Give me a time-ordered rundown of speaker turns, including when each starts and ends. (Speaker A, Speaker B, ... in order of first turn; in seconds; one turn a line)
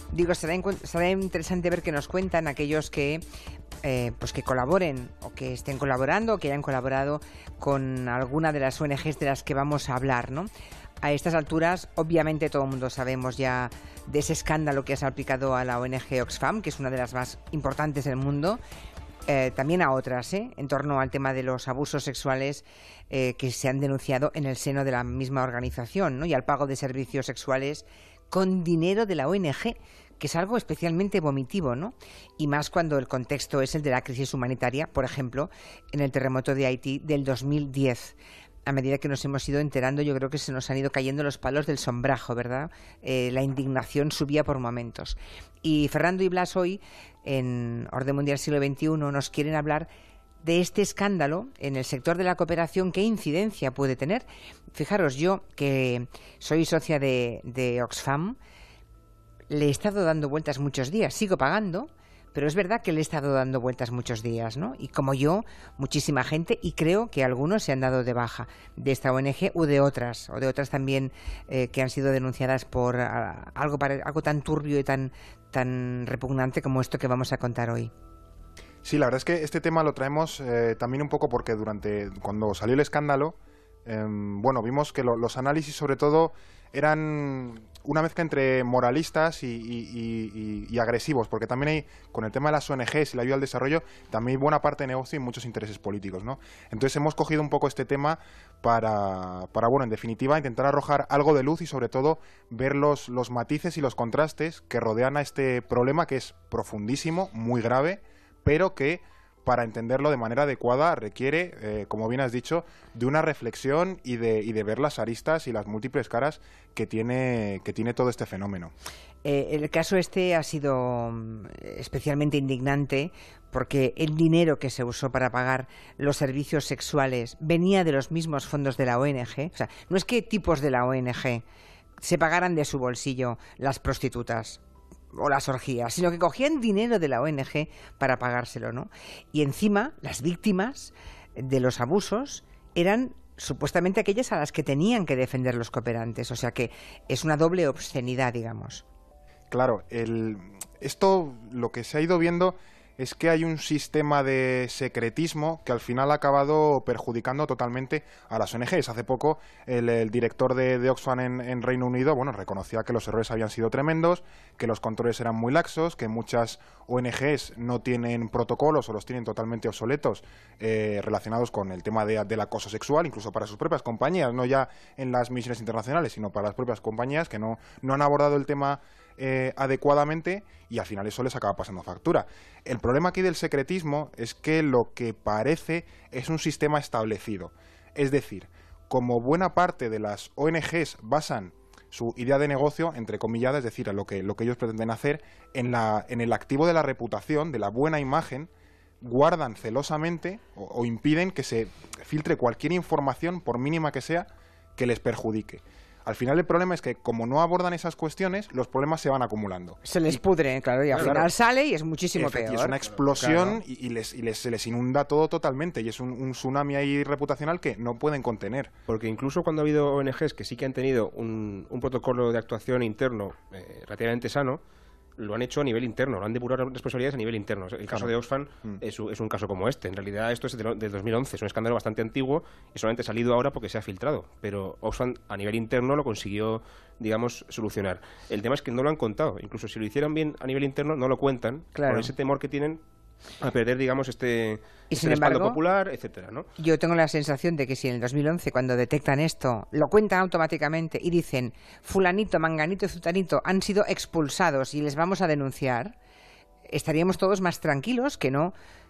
Speaker A: 0.1-3.2
Speaker A: 3.8-10.5
Speaker A: 11.0-18.6
Speaker A: 19.3-49.9
Speaker A: 50.4-58.4
Speaker A: 59.5-77.9
Speaker B: 78.8-118.7
Speaker A: 119.2-131.4
Speaker A: 132.0-134.6
Speaker A: 135.1-148.8
Speaker B: 149.5-198.5
Speaker B: 199.0-210.2
Speaker A: 209.8-212.8
Speaker C: 210.9-211.2
Speaker B: 210.9-211.3
Speaker B: 212.2-218.7
Speaker C: 213.0-213.6
Speaker C: 218.9-224.6
Speaker C: 225.2-242.8
Speaker A: 241.7-242.1
Speaker C: 243.4-246.5
Speaker A: 244.9-245.6
Speaker A: 246.6-255.9
Speaker A: 256.7-258.5